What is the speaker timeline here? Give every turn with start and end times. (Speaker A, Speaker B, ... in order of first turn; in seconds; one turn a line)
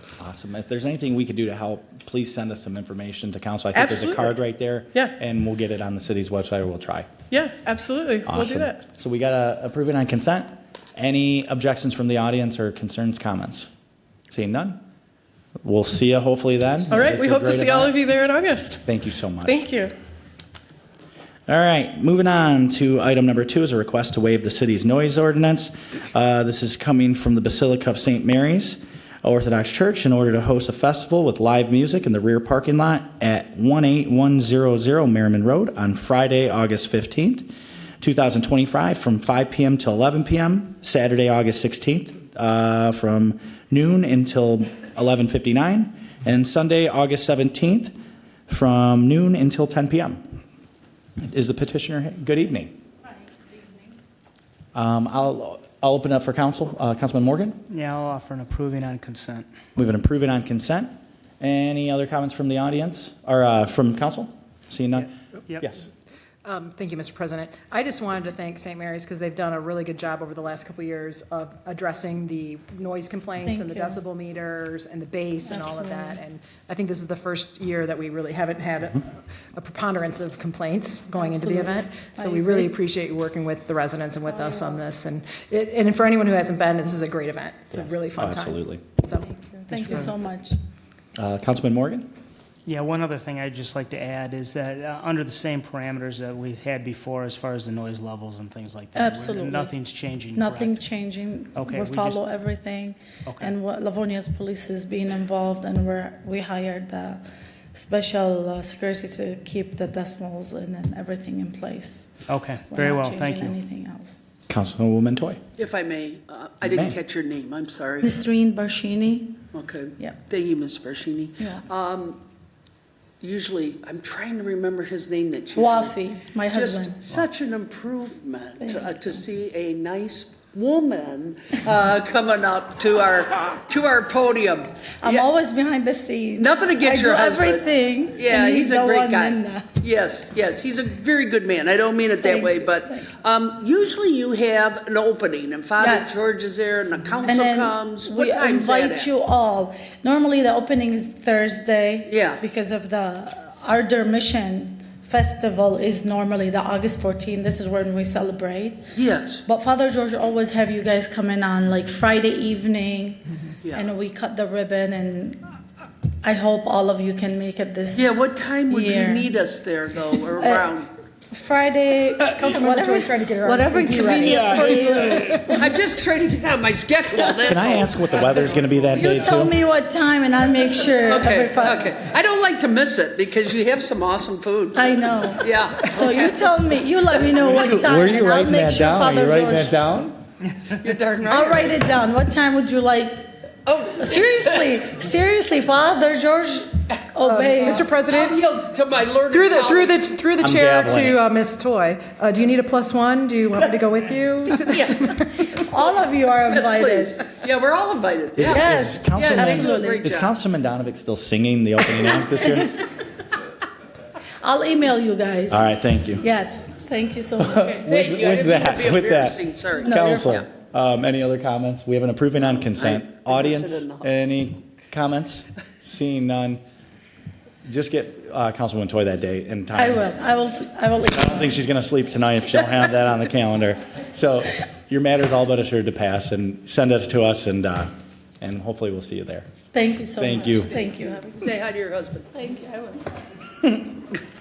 Speaker A: 0.2-7.1
Speaker B: 3.7-4.3
Speaker B: 7.3-8.8
Speaker A: 8.2-13.7
Speaker A: 14.3-14.8
Speaker A: 15.6-18.0
Speaker B: 16.9-18.9
Speaker A: 18.9-19.7
Speaker B: 19.4-19.9
Speaker A: 21.5-48.0
Speaker A: 48.5-50.2
Speaker A: 51.2-52.7
Speaker A: 54.7-57.6
Speaker C: 57.7-59.5
Speaker A: 59.8-65.8
Speaker C: 65.0-65.7
Speaker D: 66.4-90.1
Speaker E: 73.4-74.0
Speaker E: 75.5-76.2
Speaker E: 81.2-82.7
Speaker E: 84.3-84.8
Speaker A: 87.7-88.8
Speaker E: 89.2-90.5
Speaker A: 91.2-92.1
Speaker C: 92.7-100.8
Speaker E: 98.9-99.7
Speaker E: 100.3-107.2
Speaker C: 101.5-102.2
Speaker C: 103.3-103.5
Speaker E: 107.7-112.1
Speaker C: 112.3-113.6
Speaker E: 112.7-114.2
Speaker A: 114.5-115.4
Speaker F: 115.6-118.1
Speaker A: 116.6-117.0
Speaker E: 118.0-119.4
Speaker F: 119.5-122.2
Speaker F: 123.2-126.0
Speaker E: 125.6-127.0
Speaker F: 126.5-135.2
Speaker E: 128.6-129.0
Speaker E: 135.0-139.7
Speaker F: 136.3-149.1
Speaker E: 142.2-143.1
Speaker E: 145.8-146.2
Speaker E: 147.2-158.8
Speaker F: 152.1-152.4
Speaker F: 158.9-159.4
Speaker E: 159.4-165.4
Speaker F: 163.6-163.9
Speaker E: 166.2-168.1
Speaker F: 167.9-170.9
Speaker E: 168.7-169.3
Speaker E: 170.4-170.7
Speaker E: 171.3-175.7
Speaker D: 172.4-175.4
Speaker A: 174.2-175.6
Speaker F: 175.5-178.5
Speaker A: 177.4-179.6
Speaker E: 178.9-181.9
Speaker F: 181.0-186.5
Speaker E: 184.8-189.8
Speaker A: 187.6-190.2
Speaker F: 190.7-191.8
Speaker E: 191.3-193.3
Speaker F: 193.7-194.8
Speaker E: 194.0-197.9
Speaker D: 197.2-198.4
Speaker F: 197.7-200.2
Speaker D: 199.3-205.5
Speaker A: 200.4-201.2
Speaker F: 204.7-205.0
Speaker E: 205.5-207.2
Speaker F: 206.5-210.3
Speaker A: 208.4-212.8
Speaker E: 208.4-210.0
Speaker E: 214.4-215.6
Speaker A: 215.5-216.3
Speaker E: 216.2-218.0
Speaker A: 217.4-226.6
Speaker F: 217.8-220.5
Speaker E: 219.8-220.4
Speaker F: 222.8-224.1
Speaker A: 227.7-230.1
Speaker E: 229.8-231.5
Speaker A: 231.1-237.9
Speaker A: 238.4-239.5
Speaker E: 239.7-241.3
Speaker A: 240.2-240.7
Speaker F: 240.8-242.6
Speaker E: 242.4-243.1